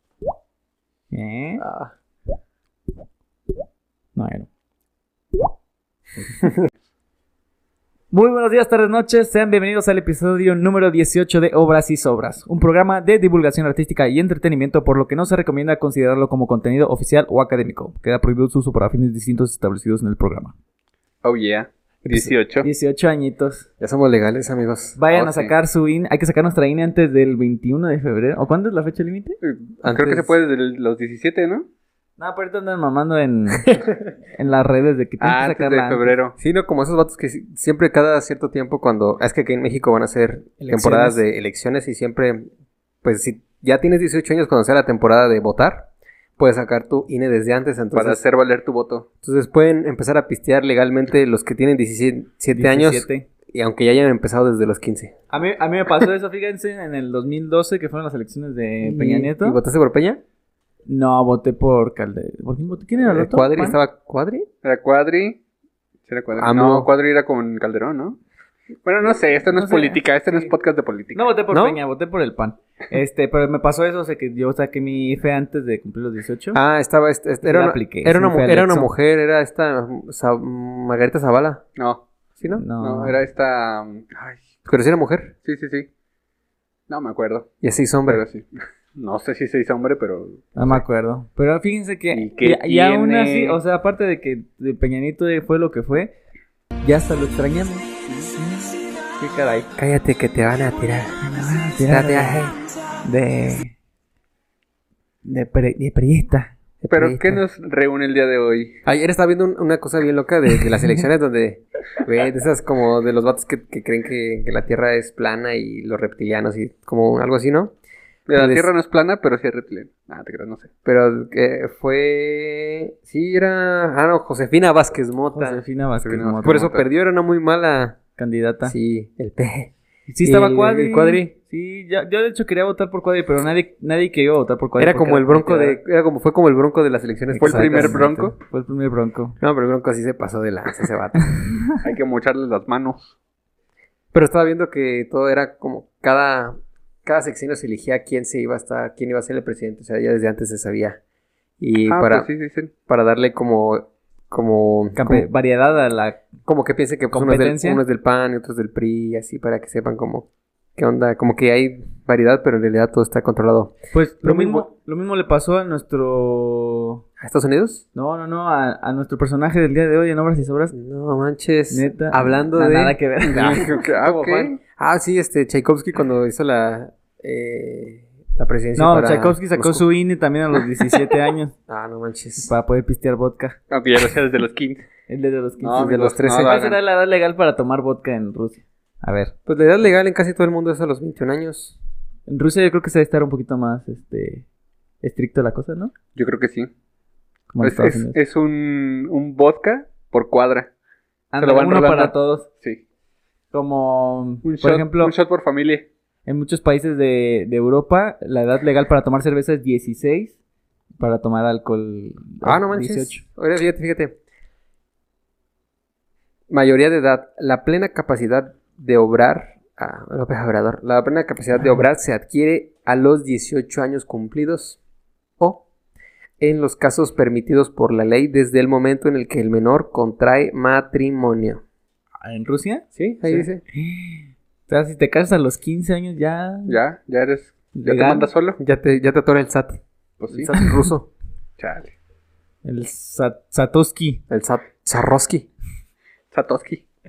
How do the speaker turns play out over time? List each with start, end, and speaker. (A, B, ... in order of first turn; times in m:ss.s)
0:01.1-0:01.6 A
0:01.6-0:01.9 B
0:04.2-0:04.5 A
0:08.1-0:20.6 A
0:21.2-0:22.7 C
0:22.1-0:23.7 A
0:23.8-0:25.5 B
0:25.0-0:29.4 A
0:29.4-0:31.7 C
0:29.8-0:30.3 B
0:32.2-0:33.7 A
0:33.6-0:34.0 B
0:34.4-0:36.2 A
0:35.2-0:36.4 C
0:36.4-0:42.5 B
0:40.7-0:41.2 A
0:43.0-0:48.2 B
0:47.9-0:49.1 C
0:49.2-0:55.2 B
0:52.5-0:53.3 A
0:55.3-0:59.6 A
0:58.8-1:00.2 B
1:00.9-1:03.8 A
1:03.1-1:04.5 B
1:04.6-1:05.4 C
1:06.1-1:08.2 C
1:06.4-1:06.9 B
1:08.8-1:11.3 C
1:09.5-1:10.5 A
1:11.2-1:16.6 A
1:11.5-1:11.8 B
1:16.5-1:21.6 B
1:17.4-1:18.9 A
1:21.8-1:22.0 C
1:22.4-1:22.6 B
1:22.6-1:23.2 A
1:22.8-1:24.4 C
1:24.6-1:25.3 B
1:25.4-1:25.9 C
1:26.9-1:27.5 C
1:27.6-1:28.2 B
1:28.1-1:30.8 C
1:30.6-1:36.1 A
1:32.1-1:33.6 C
1:36.8-1:39.7 A
1:39.8-1:41.2 B
1:41.2-1:42.5 A
1:41.9-1:42.6 B
1:43.0-1:43.8 A
1:45.2-1:46.5 A
1:46.8-1:47.4 B
1:46.9-1:48.8 C
1:48.9-1:57.7 B
1:58.3-2:00.7 C
1:58.3-1:58.7 B
2:00.8-2:05.6 B
2:05.3-2:06.7 A
2:06.0-2:06.8 C
2:06.4-2:08.0 B
2:08.2-2:08.8 A
2:08.6-2:09.7 B
2:10.1-2:15.8 A
2:10.2-2:11.3 B
2:14.8-2:18.1 B
2:17.3-2:19.4 A
2:17.4-2:18.3 C
2:19.4-2:21.6 B
2:21.8-2:23.2 C
2:24.1-2:31.0 B
2:31.6-2:32.3 B
2:31.9-2:32.7 C
2:32.9-2:35.3 B
2:35.0-2:36.2 A
2:36.5-2:44.7 B
2:37.1-2:37.8 A
2:43.9-2:47.0 A
2:47.2-2:47.8 B
2:47.9-2:50.8 A
2:50.7-2:59.8 B
2:51.7-2:53.7 A
2:53.3-2:54.6 C
2:58.8-3:01.5 A
3:01.7-3:02.5 B
3:02.4-3:03.6 A
3:03.7-3:04.8 C
3:05.1-3:09.3 A
3:05.6-3:06.8 C
3:05.8-3:06.6 B
3:09.5-3:11.8 B
3:12.3-3:14.4 A
3:15.0-3:15.9 A
3:16.2-3:16.7 C
3:17.5-3:18.2 A
3:17.6-3:20.7 C
3:21.3-3:22.5 A
3:21.4-3:22.8 C
3:23.5-3:25.1 A
3:24.4-3:25.9 C
3:26.3-3:30.4 A
3:31.0-3:33.2 A
3:32.4-3:34.2 B
3:36.5-3:44.8 B
3:46.4-3:51.6 B
3:52.2-3:52.9 A
3:53.0-3:53.6 B
3:53.7-3:56.8 A
3:56.7-3:58.6 C
3:57.7-3:58.3 A
3:58.6-4:01.1 B
4:00.2-4:00.6 C
4:01.6-4:01.9 C
4:02.6-4:04.2 A
4:04.3-4:05.5 B
4:06.3-4:06.8 C